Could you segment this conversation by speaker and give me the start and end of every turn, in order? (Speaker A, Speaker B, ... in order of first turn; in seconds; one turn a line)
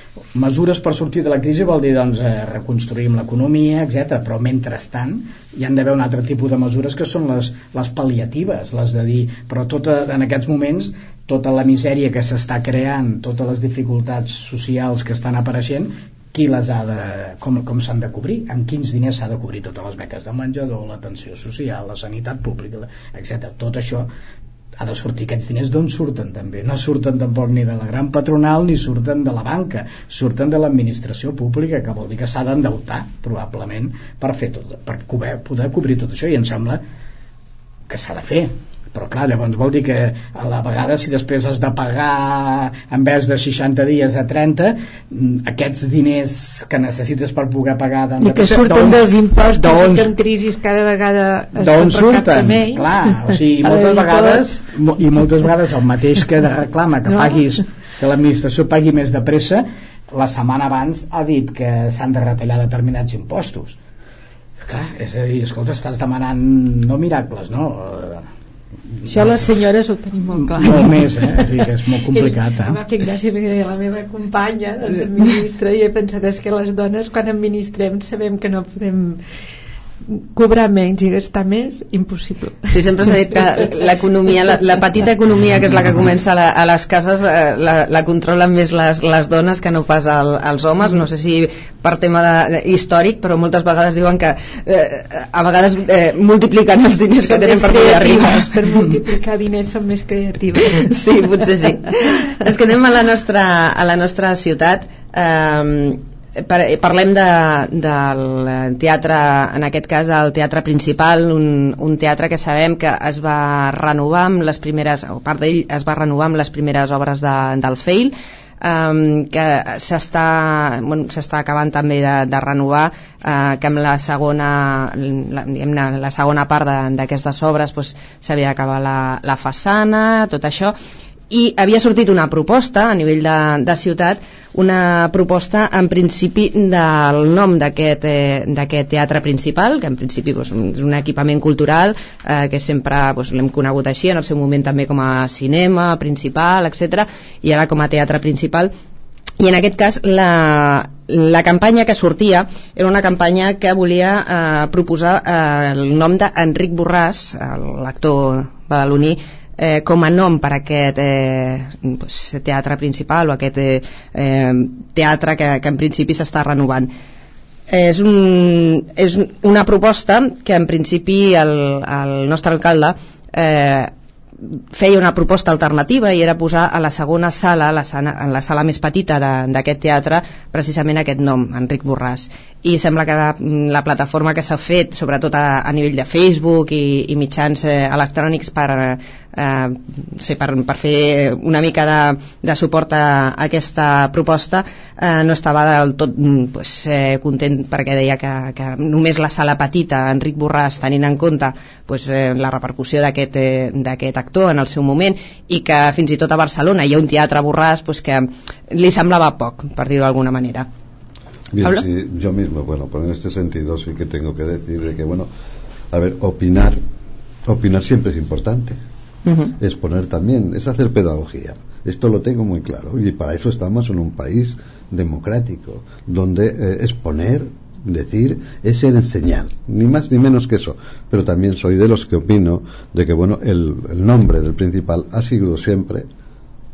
Speaker A: 0.3-24.1
Speaker A: 24.8-36.8
Speaker A: 37.9-50.1
Speaker B: 48.2-54.5
Speaker A: 51.6-63.8
Speaker A: 64.7-68.3
Speaker A: 69.0-69.4
Speaker B: 69.1-71.4
Speaker A: 70.4-72.8
Speaker B: 72.1-79.2
Speaker B: 80.3-82.8
Speaker C: 82.7-98.6
Speaker B: 97.2-100.9
Speaker C: 100.7-130.8
Speaker C: 131.3-148.7
Speaker C: 149.4-166.9
Speaker C: 167.7-173.9
Speaker C: 174.7-210.7
Speaker D: 211.5-215.3
Speaker D: 215.9-216.8
Speaker D: 217.5-218.8
Speaker C: 219.3-219.5
Speaker D: 219.6-236.1